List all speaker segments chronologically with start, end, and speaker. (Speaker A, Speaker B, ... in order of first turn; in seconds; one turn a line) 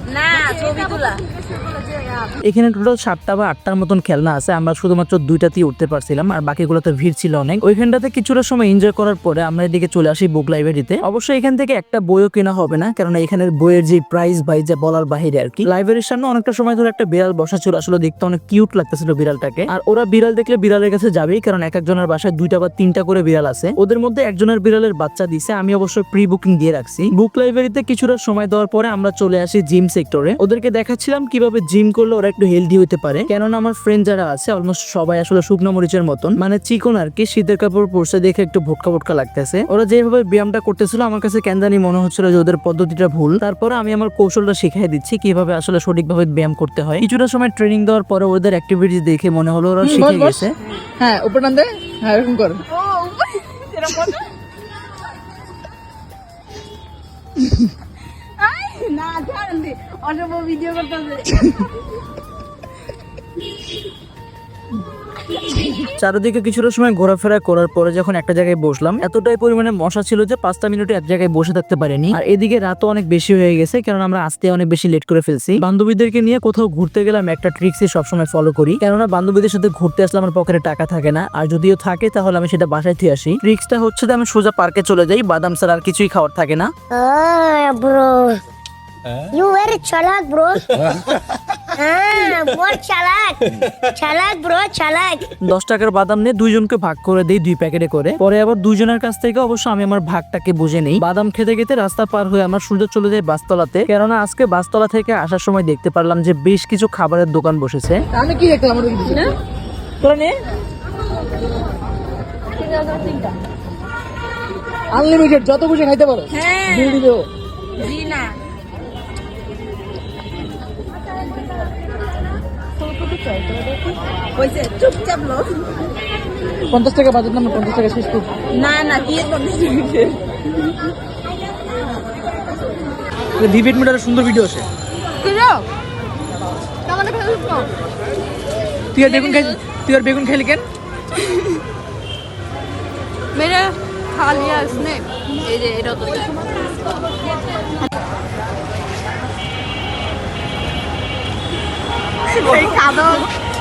Speaker A: 0.1-2.2
Speaker B: 2.4-50.5
Speaker C: 49.8-50.4
Speaker C: 51.0-52.6
Speaker A: 52.7-54.3
Speaker A: 58.4-61.5
Speaker B: 66.0-86.7
Speaker D: 86.9-88.4
Speaker D: 89.3-90.7
Speaker D: 91.8-95.3
Speaker B: 95.4-108.0
Speaker C: 108.1-109.3
Speaker C: 110.0-110.3
Speaker C: 114.9-117.3
Speaker A: 116.3-117.0
Speaker A: 117.8-118.3
Speaker A: 124.4-125.6
Speaker C: 126.7-128.4
Speaker A: 128.5-130.2
Speaker B: 133.4-134.6
Speaker A: 135.2-135.5
Speaker C: 138.9-140.6
Speaker A: 143.4-146.3
Speaker A: 152.3-153.3